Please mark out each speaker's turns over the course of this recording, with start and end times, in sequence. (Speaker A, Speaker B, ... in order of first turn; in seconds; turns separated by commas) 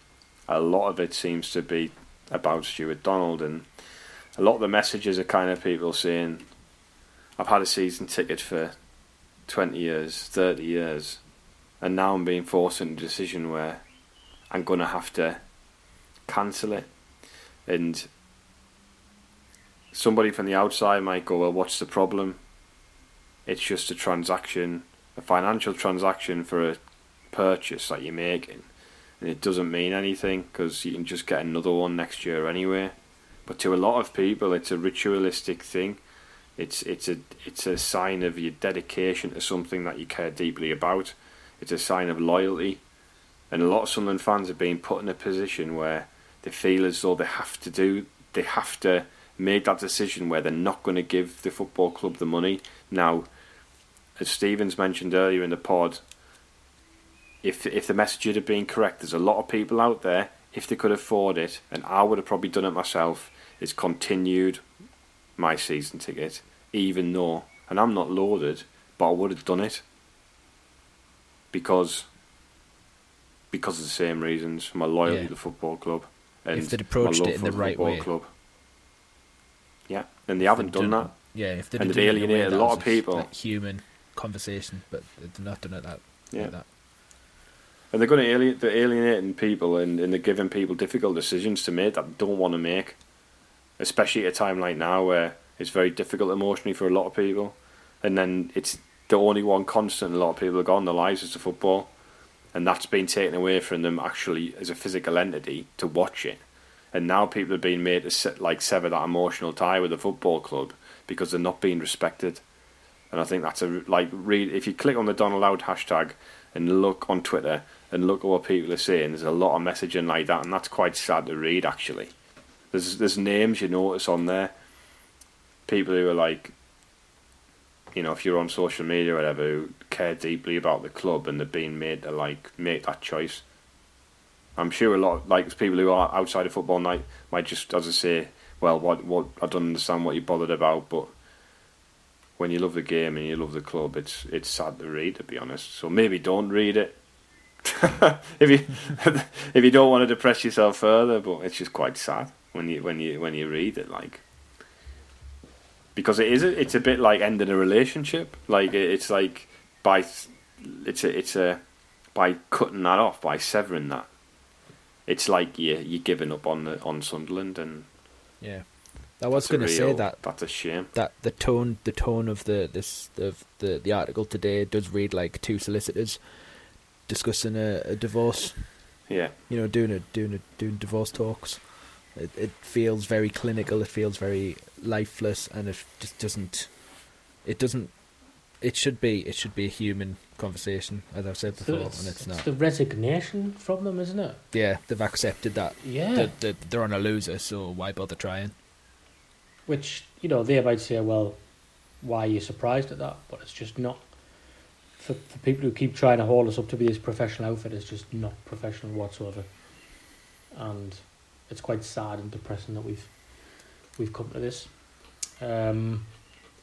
Speaker A: 0.4-6.6, Speaker A: 7.4-13.9, Speaker A: 14.5-15.5, Speaker A: 16.2-16.9, Speaker A: 17.6-18.1, Speaker A: 19.9-22.4, Speaker A: 23.4-36.0, Speaker A: 36.6-42.8, Speaker A: 43.5-53.3, Speaker A: 54.1-56.0, Speaker A: 57.4-64.6, Speaker A: 65.3-69.8, Speaker A: 71.5-72.1, Speaker A: 73.5-78.3, Speaker B: 75.0-75.3, Speaker B: 76.5-78.1, Speaker A: 79.9-83.3, Speaker B: 80.4-86.7, Speaker A: 86.3-86.6, Speaker A: 87.9-93.0, Speaker A: 93.8-102.0, Speaker A: 102.5-112.4, Speaker A: 113.1-122.1, Speaker A: 122.7-124.5, Speaker A: 125.7-126.5, Speaker A: 127.9-133.4, Speaker A: 134.6-141.1, Speaker A: 142.4-147.0, Speaker A: 147.6-154.2, Speaker A: 155.9-164.2, Speaker A: 165.0-167.9, Speaker B: 168.4-192.5, Speaker A: 169.3-170.9, Speaker A: 179.1-179.3, Speaker C: 191.6-194.4, Speaker B: 194.5-198.5, Speaker C: 195.8-196.4, Speaker C: 199.7-216.3